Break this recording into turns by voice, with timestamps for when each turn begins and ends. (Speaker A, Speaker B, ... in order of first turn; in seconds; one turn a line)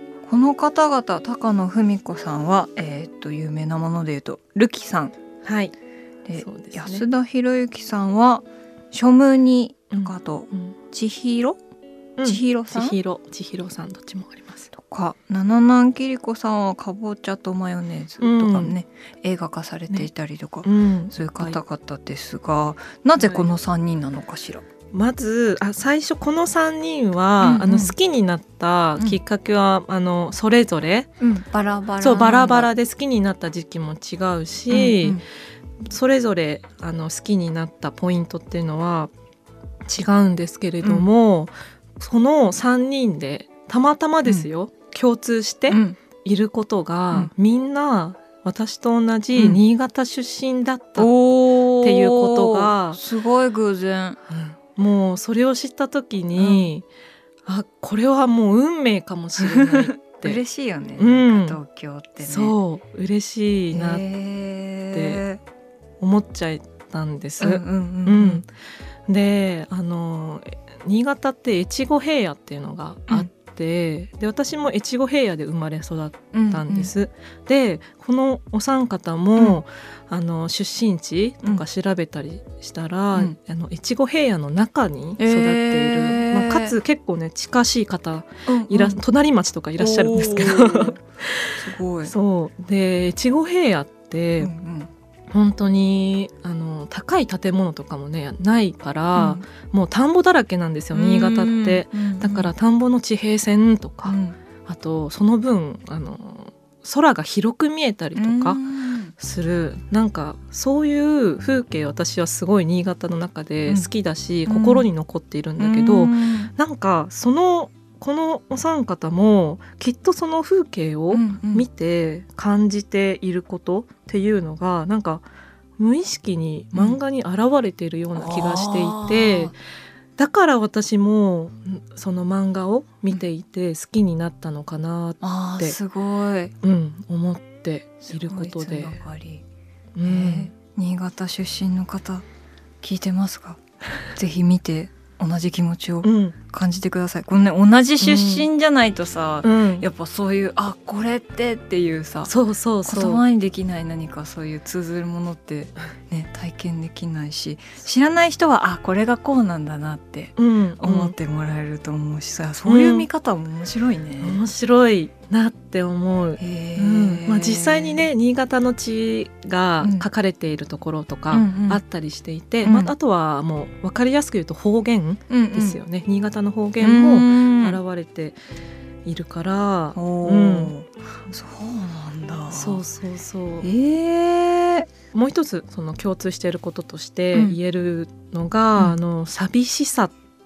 Speaker A: 0.2-5.1
Speaker B: 5.4-5.7
Speaker A: 6.2-11.6
Speaker B: 6.4-7.0
Speaker B: 9.9-10.7
Speaker B: 12.2-14.7
Speaker A: 12.2-13.0
Speaker A: 14.7-24.6
Speaker B: 18.2-18.7
Speaker B: 20.6-21.6
Speaker B: 23.2-23.5
Speaker B: 24.9-31.1
Speaker A: 27.4-27.9
Speaker A: 31.2-32.7
Speaker B: 32.0-35.2
Speaker A: 34.7-35.2
Speaker B: 35.8-39.1
Speaker B: 39.9-51.1
Speaker A: 45.7-46.0
Speaker A: 49.4-49.6
Speaker A: 51.0-54.2
Speaker B: 51.8-53.0
Speaker B: 54.3-56.8
Speaker A: 56.4-56.7
Speaker B: 57.5-60.4
Speaker A: 59.4-62.5
Speaker B: 61.0-61.6
Speaker B: 62.2-64.0
Speaker A: 63.7-65.4
Speaker B: 64.9-65.2
Speaker B: 66.0-68.5
Speaker A: 67.4-68.4
Speaker B: 69.1-94.5
Speaker A: 76.3-76.9
Speaker A: 85.2-86.7
Speaker A: 88.5-89.0
Speaker A: 89.8-91.0
Speaker A: 91.5-92.1
Speaker A: 94.4-94.9
Speaker B: 95.3-108.6
Speaker A: 99.2-99.4
Speaker A: 100.9-102.5
Speaker A: 104.0-104.3
Speaker A: 108.1-109.1
Speaker B: 109.2-125.2
Speaker A: 114.5-114.9
Speaker A: 115.6-116.5
Speaker A: 121.1-121.7
Speaker B: 125.8-129.5
Speaker A: 128.1-129.5
Speaker B: 130.2-135.8
Speaker A: 135.2-136.5
Speaker B: 136.6-139.0
Speaker A: 138.1-139.4
Speaker B: 139.9-140.5
Speaker A: 140.0-142.2
Speaker A: 142.8-143.6
Speaker A: 144.1-152.3
Speaker B: 146.0-146.3
Speaker B: 148.0-148.5
Speaker B: 149.4-149.8
Speaker B: 152.3-153.2
Speaker A: 152.8-164.4
Speaker B: 160.4-161.1
Speaker B: 162.6-163.1
Speaker B: 164.2-178.4
Speaker A: 166.4-168.1
Speaker A: 169.8-170.1
Speaker A: 171.3-171.8
Speaker A: 172.6-172.9
Speaker A: 175.3-175.8
Speaker A: 176.8-177.8
Speaker B: 179.0-180.7
Speaker A: 179.9-182.8
Speaker B: 182.5-183.7
Speaker A: 183.6-184.9
Speaker B: 185.1-190.1